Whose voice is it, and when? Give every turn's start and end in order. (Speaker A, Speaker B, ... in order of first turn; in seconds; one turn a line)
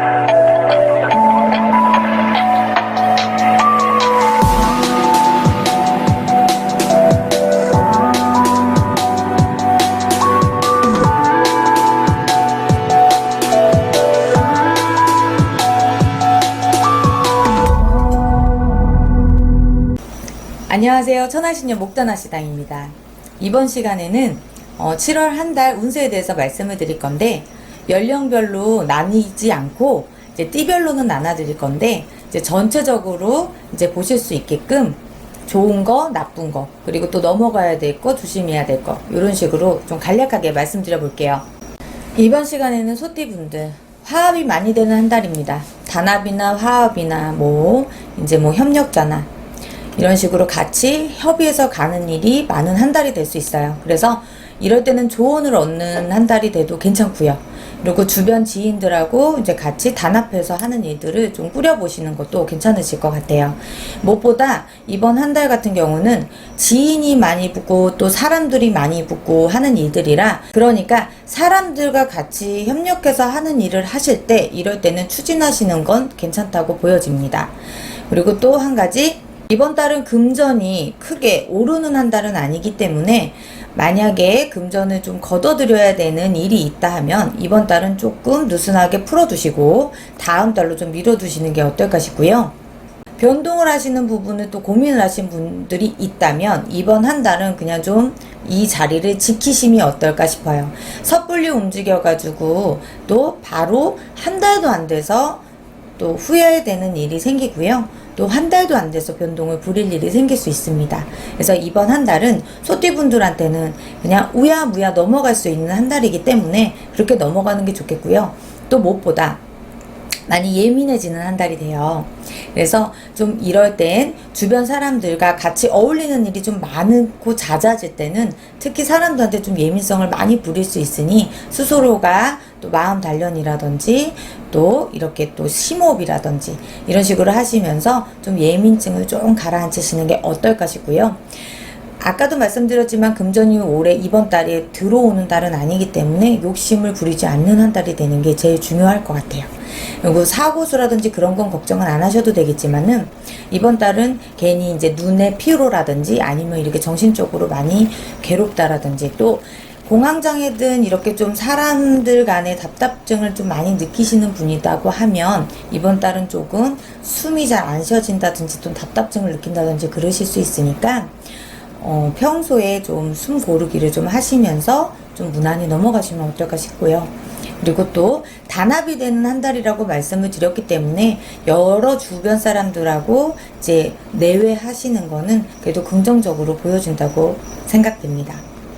Speaker A: 20.7-41.4
Speaker A: 42.2-49.3
Speaker A: 50.0-77.5
Speaker A: 78.1-92.5
Speaker A: 93.2-105.4
Speaker A: 106.0-119.4
Speaker A: 120.3-141.2
Speaker A: 142.0-149.5
Speaker A: 150.0-171.1
Speaker A: 171.8-188.4